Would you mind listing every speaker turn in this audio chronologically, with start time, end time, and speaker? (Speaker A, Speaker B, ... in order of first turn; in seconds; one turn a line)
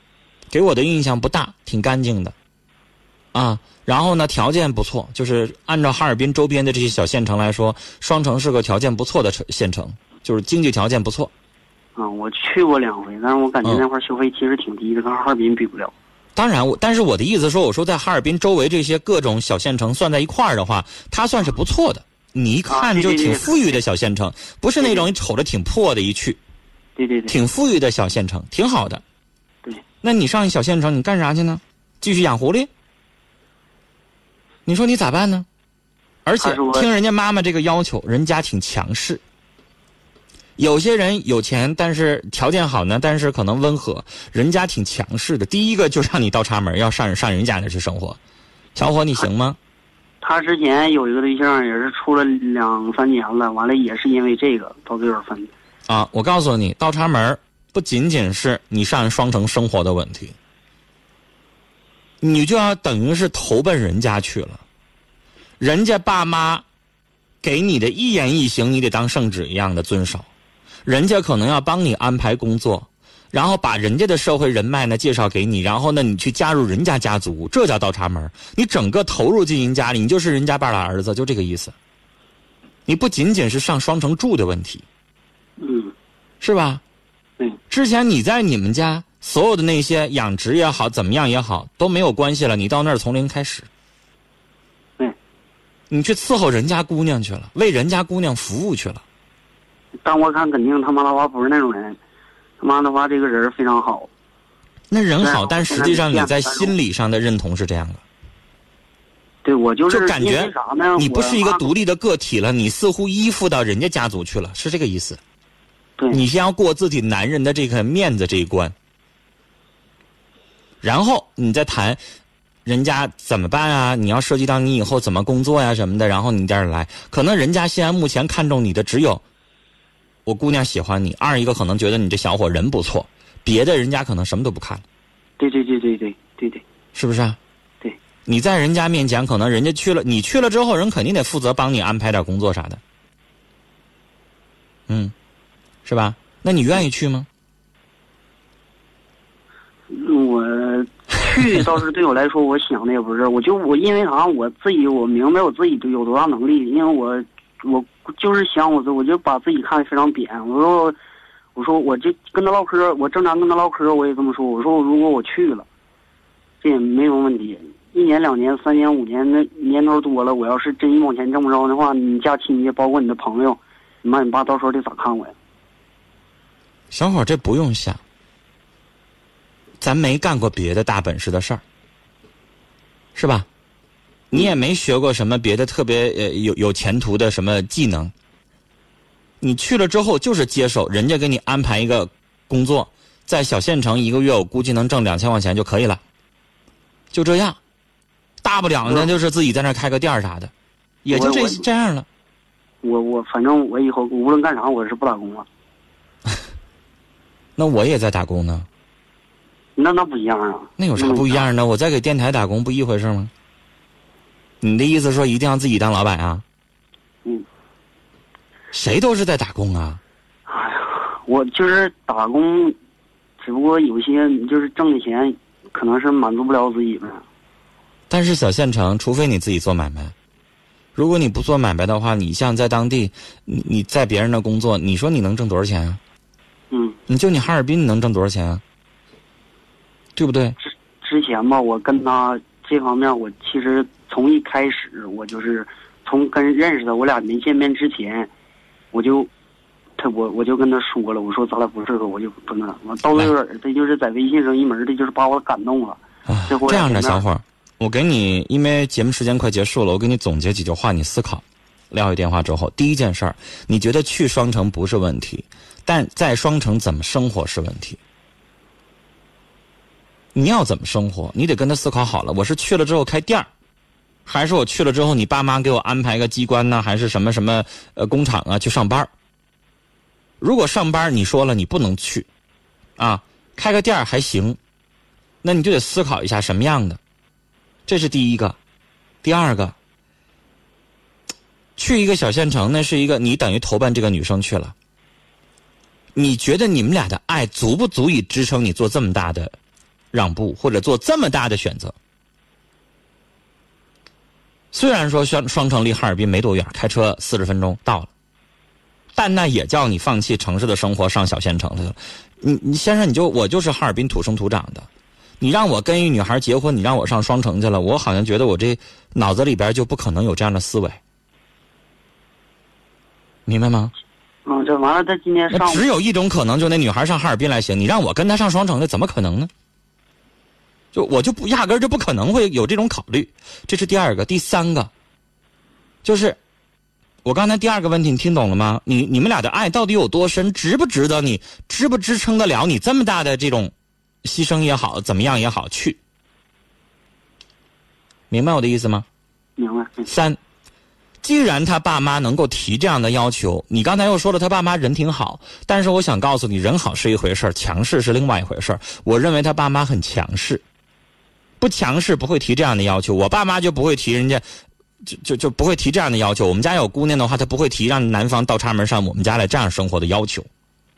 Speaker A: 0.5-2.4
Speaker A: 3.3-11.3
Speaker B: 12.0-15.9
Speaker A: 16.4-26.4
Speaker B: 22.7-23.7
Speaker B: 24.8-25.1
Speaker B: 27.0-27.4
Speaker A: 27.3-29.0
Speaker A: 30.0-32.7
Speaker A: 34.7-35.5
Speaker A: 36.2-39.2
Speaker B: 36.4-36.9
Speaker A: 40.6-48.2
Speaker A: 48.8-49.6
Speaker B: 50.2-55.5
Speaker A: 55.9-60.4
Speaker A: 62.2-64.6
Speaker A: 65.6-66.7
Speaker A: 67.4-70.3
Speaker A: 70.8-81.8
Speaker A: 82.9-84.9
Speaker B: 85.6-85.9
Speaker A: 86.4-86.8
Speaker A: 87.7-93.7
Speaker A: 95.9-99.0
Speaker B: 100.0-102.0
Speaker B: 102.6-104.1
Speaker A: 104.9-108.0
Speaker B: 105.2-106.7
Speaker B: 109.5-111.7
Speaker A: 109.9-115.2
Speaker A: 116.1-118.7
Speaker A: 120.8-122.0
Speaker A: 122.7-129.2
Speaker A: 130.3-134.8
Speaker B: 135.4-136.6
Speaker A: 136.9-137.4
Speaker A: 138.3-142.8
Speaker A: 144.9-145.1
Speaker A: 145.9-147.3
Speaker B: 149.9-161.0
Speaker B: 161.6-165.7
Speaker B: 166.6-175.3
Speaker A: 176.9-178.0
Speaker A: 179.8-181.6
Speaker A: 183.2-183.5
Speaker A: 184.3-188.1
Speaker A: 189.4-196.0
Speaker A: 197.1-197.6
Speaker A: 198.4-200.5
Speaker A: 201.0-202.1
Speaker B: 201.1-201.6
Speaker B: 202.8-205.5
Speaker A: 207.6-208.7
Speaker B: 209.8-211.5
Speaker A: 210.8-213.3
Speaker A: 214.6-216.4
Speaker A: 218.7-220.0
Speaker B: 220.5-222.8
Speaker B: 223.4-227.2
Speaker A: 228.1-230.1
Speaker A: 231.0-236.0
Speaker B: 236.7-237.0
Speaker A: 237.1-238.6
Speaker A: 240.2-240.6
Speaker B: 240.6-248.3
Speaker B: 248.9-249.3
Speaker B: 250.0-257.2
Speaker A: 256.3-268.0
Speaker A: 270.4-273.5
Speaker A: 274.3-279.1
Speaker A: 280.4-282.3
Speaker A: 283.0-284.6
Speaker A: 285.4-287.0
Speaker A: 287.9-288.6
Speaker A: 289.2-289.8
Speaker A: 291.8-294.7
Speaker A: 296.2-299.5
Speaker A: 300.1-301.9
Speaker A: 304.7-308.1
Speaker A: 309.1-314.9
Speaker A: 315.4-321.0
Speaker A: 323.5-323.9
Speaker B: 324.5-325.9
Speaker A: 325.5-329.5
Speaker A: 330.9-334.9
Speaker A: 336.0-336.4
Speaker A: 337.2-343.7
Speaker A: 344.2-346.0
Speaker A: 348.3-349.1
Speaker B: 349.6-350.1
Speaker A: 350.1-350.4
Speaker A: 351.2-360.6
Speaker A: 361.6-364.4
Speaker A: 365.0-370.5